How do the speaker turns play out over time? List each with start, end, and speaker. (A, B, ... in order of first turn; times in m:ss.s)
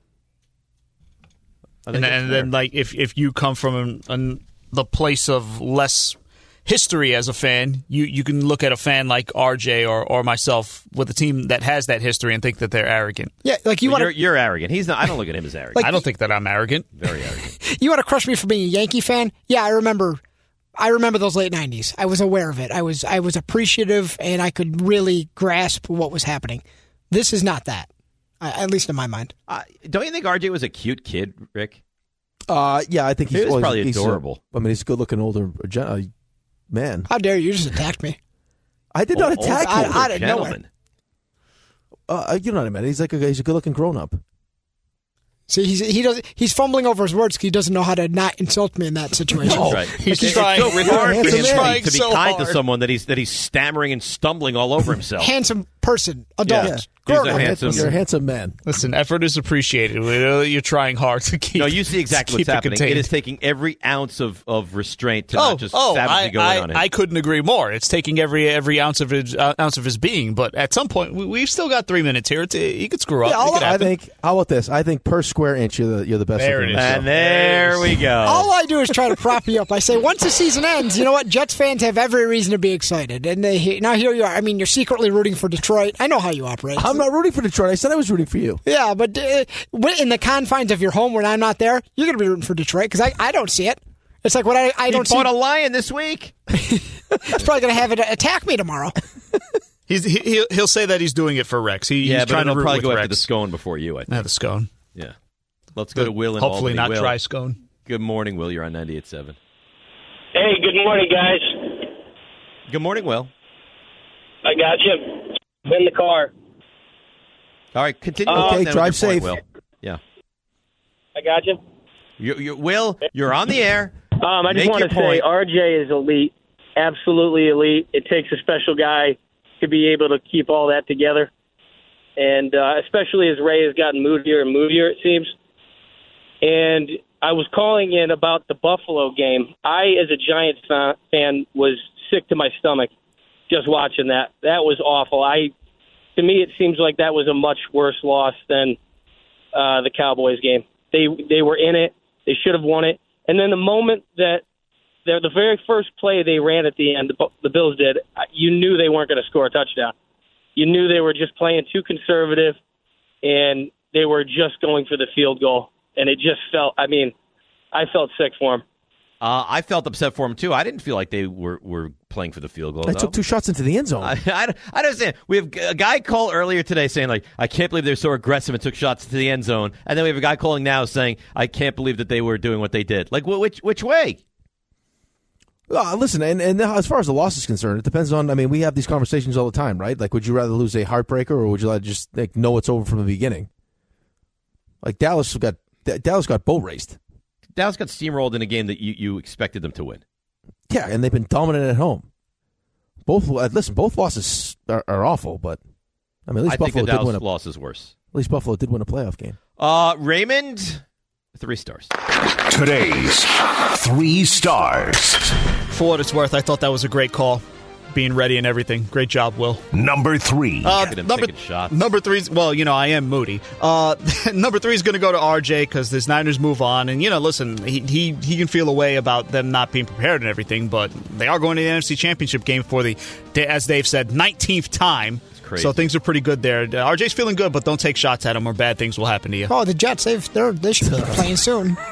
0:01.9-0:02.5 A
0:01.9-0:13.3 B
0:13.4-0:14.2 C
0:13.8-0:16.0 A
0:15.8-0:16.9 B
0:17.0-0:17.5 A
0:17.6-0:20.2 C
0:20.8-0:27.9 C
0:28.4-0:29.3 C
0:29.5-0:31.8 A
0:32.5-0:36.1 D
0:33.3-0:34.4 A
0:36.7-0:37.1 D
0:37.1-0:38.2 C
0:38.9-0:40.4 D
0:39.1-0:40.7 A
0:39.6-0:40.6 C
0:42.1-0:44.2 D
0:45.5-0:50.4 C
0:49.5-0:49.9 D
0:49.5-0:55.3 A
0:49.9-0:52.6 B
0:50.8-0:51.8 D
0:55.2-0:56.9 C
0:56.5-0:57.9 A
0:56.6-0:58.6 D
0:57.1-0:57.8 B
0:58.7-1:03.1 B
1:01.6-1:06.9 A
1:05.3-1:13.9 B
1:13.2-1:17.1 D
1:16.4-1:18.0 B
1:16.7-1:18.5 A
1:18.2-1:27.0 C
1:26.8-1:28.6 D
1:28.6-1:35.3 C
1:34.9-1:36.4 A
1:36.7-1:39.0 C
1:39.9-1:43.3 B
1:42.0-1:44.3 A
1:44.1-1:44.7 B
1:45.8-1:47.2 A
1:46.0-1:47.6 B
1:47.9-1:49.4 A
1:50.4-1:51.9 E
1:52.7-1:53.3 A
1:54.4-1:56.3 E
1:57.7-2:00.0 A
1:58.3-1:58.6 E
1:58.3-1:59.4 D
2:01.2-2:01.6 E
2:02.2-2:05.3 A
2:04.2-2:11.3 E
2:12.2-2:15.3 E
2:16.4-2:22.9 E
2:23.5-2:25.5 E
2:26.2-2:28.8 E
2:29.5-2:34.4 E
2:35.1-2:39.9 E
2:40.6-2:42.6 E
2:43.2-2:47.1 E
2:47.7-2:48.6 E
2:49.2-2:53.2 A
2:52.8-2:54.2 D
2:54.0-3:04.2 A
3:05.7-3:13.5 D
3:14.8-3:17.0 D
3:17.6-3:20.0 A
3:20.7-3:22.1 D
3:23.1-3:25.6 D
3:26.3-3:27.2 D
3:26.5-3:27.9 A
3:28.1-3:29.4 D
3:29.6-3:30.8 A
3:31.4-3:31.9 A
3:32.4-3:35.4 F
3:35.7-3:39.6 B
3:39.7-3:40.7 F
3:40.6-3:59.5 B
3:40.7-3:41.8 A
3:55.4-3:55.9 A
3:59.5-4:01.8 C
4:00.9-4:01.3 D